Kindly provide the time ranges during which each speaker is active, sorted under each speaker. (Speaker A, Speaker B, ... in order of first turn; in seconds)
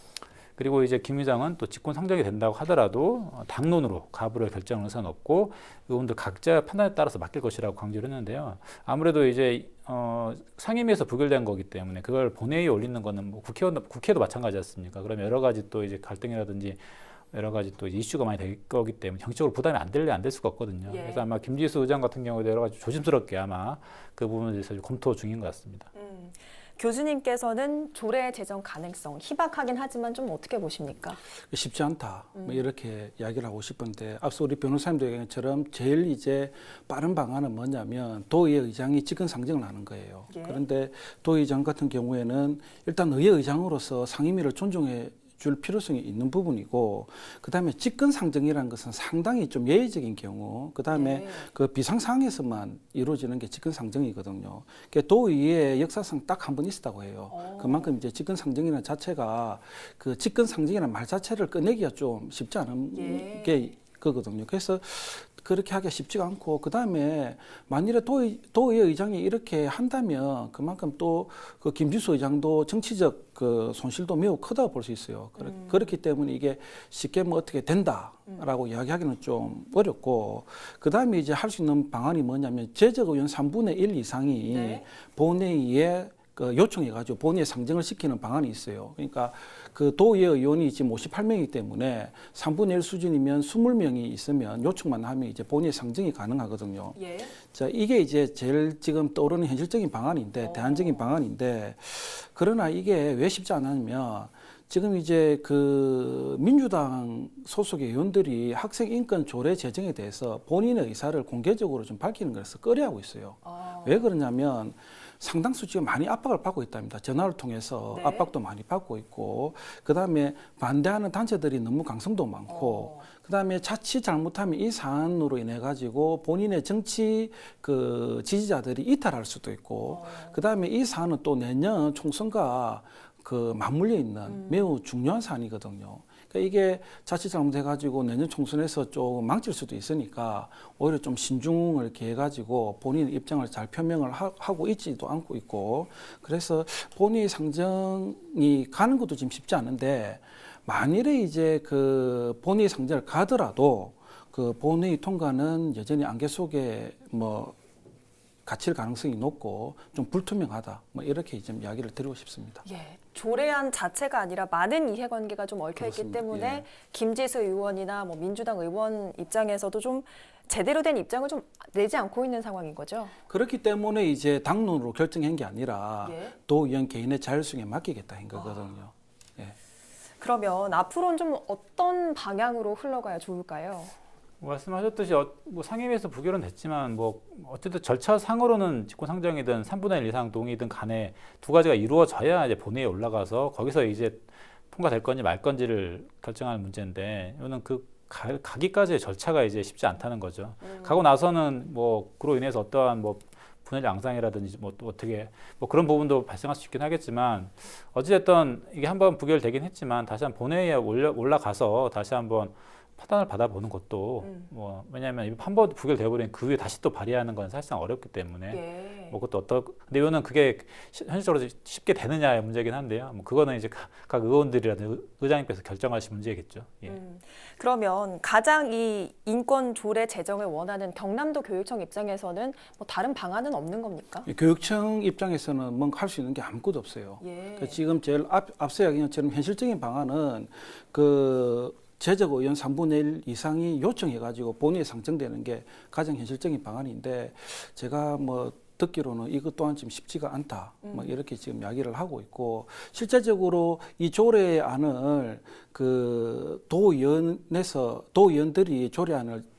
Speaker A: 0.6-25.9, 184.4-227.0
Speaker B: 20.9-21.3, 25.9-31.2, 32.4-32.6, 40.3-40.6, 50.9-51.5, 57.3-57.9, 62.9-63.7, 75.4-75.8, 84.5-84.8, 97.0-97.3, 100.4-101.1, 113.5-114.1, 117.9-118.3, 122.5-123.1, 129.9-130.4, 134.3-134.7, 162.6-173.1, 176.0-176.4, 178.3-178.6, 180.2-183.9, 200.7-200.9, 214.2-214.5, 218.5-219.2, 226.9-234.3, 237.2-237.8
Speaker C: 31.5-157.6, 158.5-162.6, 165.8-166.7, 173.3-179.6, 234.3-259.5